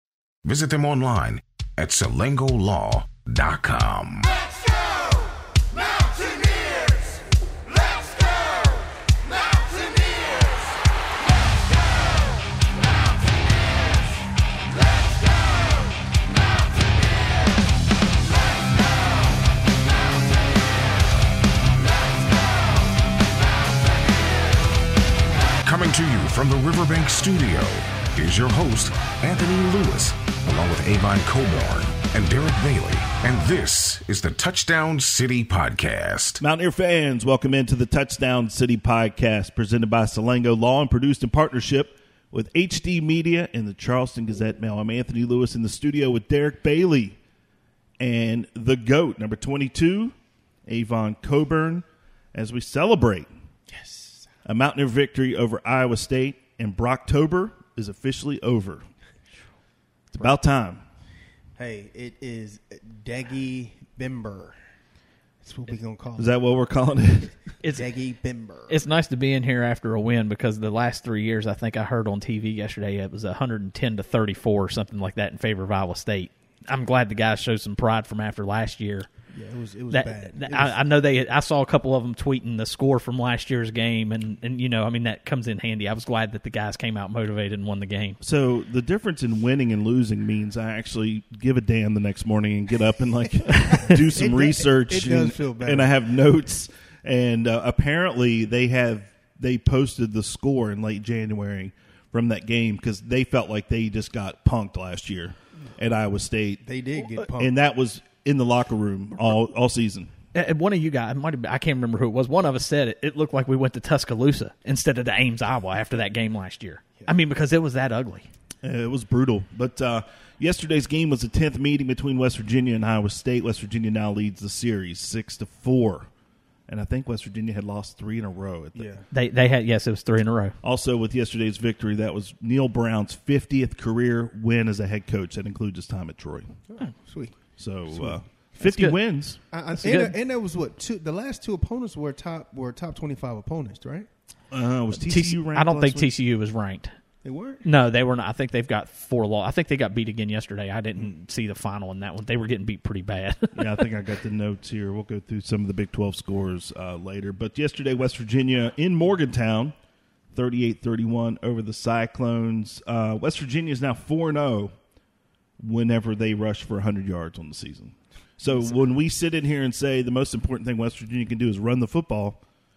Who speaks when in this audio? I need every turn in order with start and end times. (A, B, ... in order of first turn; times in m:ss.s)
0:00.4-0:04.3 A
0:25.6-0:36.4 A
0:36.4-0:47.2 B
0:48.0-0:50.1 B
0:50.6-0:53.3 B
0:53.7-0:54.3 C
0:54.4-0:58.8 B
1:00.1-1:00.8 B
1:01.6-1:04.6 C
1:05.4-1:06.3 C
1:06.2-1:07.3 B
1:07.7-1:08.8 C
1:08.7-1:19.1 D
1:19.3-1:20.8 C
1:19.9-1:28.2 D
1:28.2-1:46.6 B
1:33.8-1:35.9 C
1:46.6-1:47.5 C
1:47.4-1:50.1 B
1:50.3-1:58.3 D
1:58.6-2:06.1 B
2:06.7-2:08.9 B
2:08.8-2:09.0 C
2:09.1-2:10.5 D
2:10.6-2:16.6 B
2:16.7-2:18.2 C
2:17.6-2:19.4 B
2:18.6-2:19.0 D
2:19.5-2:24.1 C
2:19.7-2:20.1 D
2:24.5-2:26.1 B
2:24.9-2:26.9 D
2:27.2-2:27.6 C
2:27.6-2:33.8 D
2:33.5-2:39.7 B
2:40.3-2:44.7 B
2:45.6-2:52.4 B
2:48.4-2:48.7 C